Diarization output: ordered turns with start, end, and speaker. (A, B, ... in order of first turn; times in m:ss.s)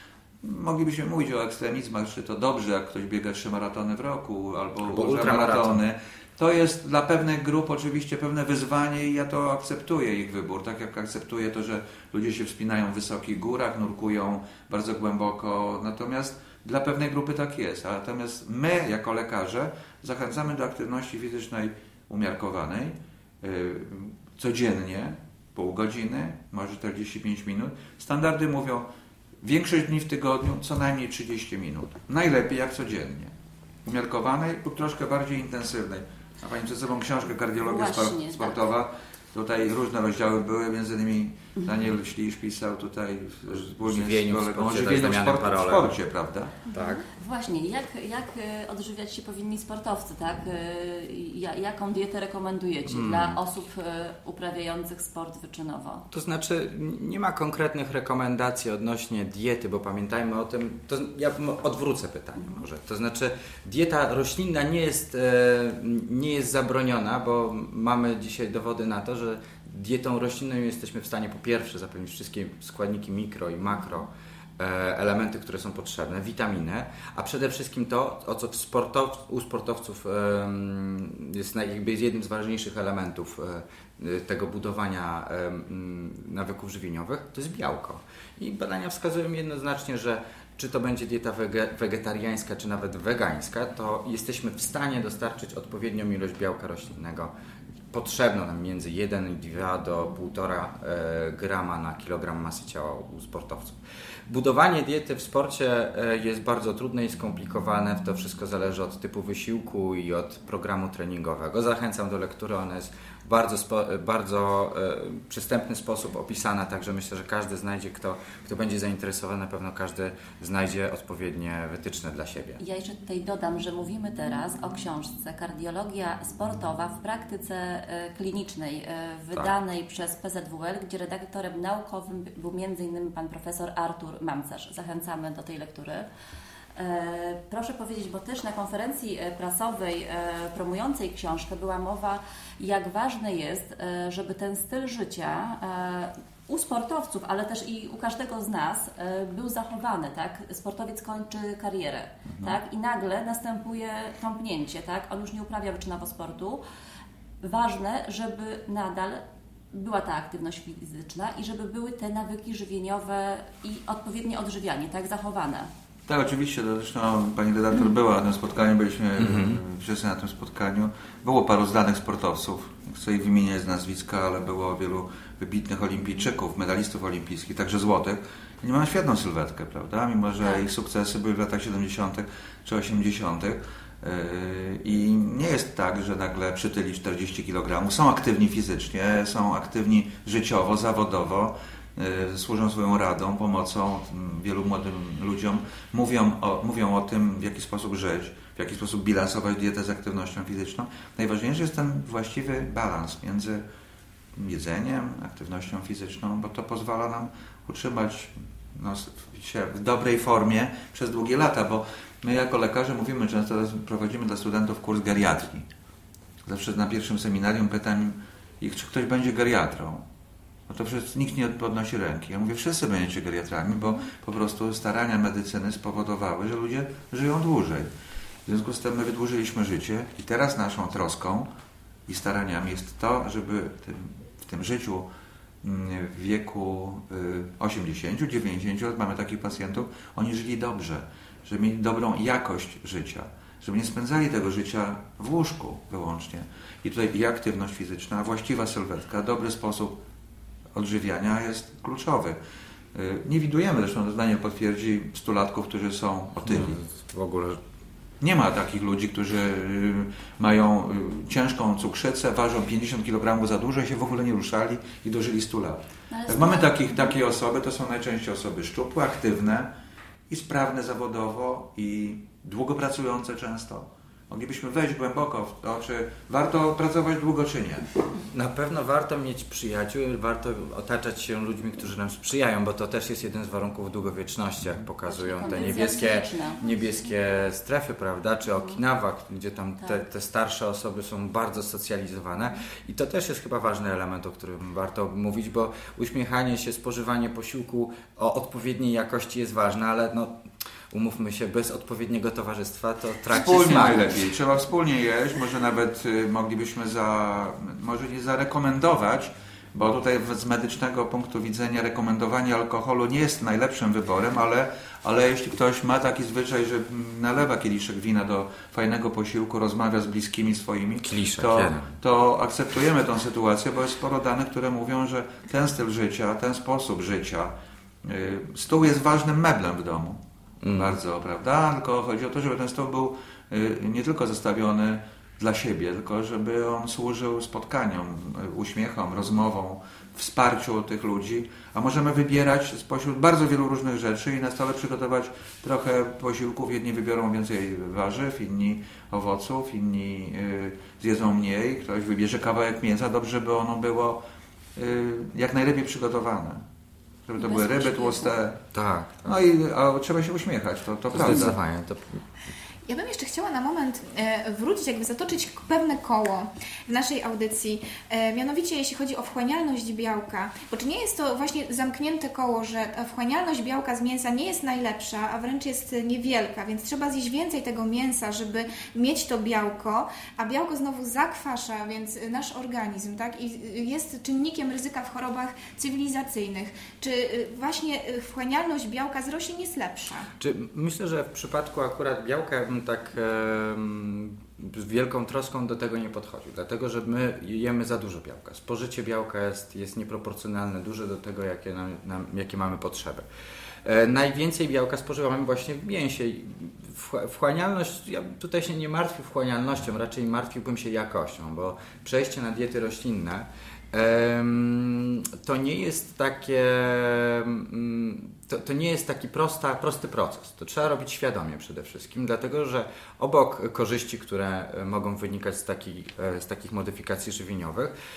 0:00.4-0:28.8 A
0:04.8-0:05.8 B
0:29.4-0:33.3 A
0:33.8-0:46.6 A
0:37.6-0:38.6 C
0:43.8-0:45.9 B
0:46.7-0:47.0 B
0:46.7-0:56.0 C
0:52.8-0:53.4 B
0:56.1-1:37.3 B
1:37.9-2:02.6 B
2:02.6-2:16.1 C
2:16.8-2:36.6 C
2:32.3-2:32.6 A
2:37.4-2:45.7 C
2:46.1-3:23.6 A
2:49.2-2:49.6 B
3:24.3-3:35.7 A
3:36.4-3:40.0 A
3:40.7-3:47.9 A
3:48.4-3:51.5 A
3:52.1-3:55.1 A
3:55.6-4:10.0 A
4:10.7-4:12.4 A
4:12.9-4:16.8 A
4:16.4-4:17.6 B
4:18.2-4:29.7 A
4:26.1-4:27.1 C
4:30.3-4:37.9 A
4:38.3-5:00.3 B
4:45.1-4:46.7 C
5:00.9-5:04.2 B
5:03.3-5:27.5 A
5:21.0-5:21.9 B
5:28.0-5:30.2 A
5:30.6-5:31.0 B
5:30.7-5:54.2 A
5:54.8-5:56.6 A
5:57.3-5:58.6 A
5:58.7-5:59.3 B
5:59.2-6:01.6 A
6:01.1-6:02.2 B
6:02.9-6:30.3 D
6:30.4-6:43.2 B
6:43.8-7:07.9 B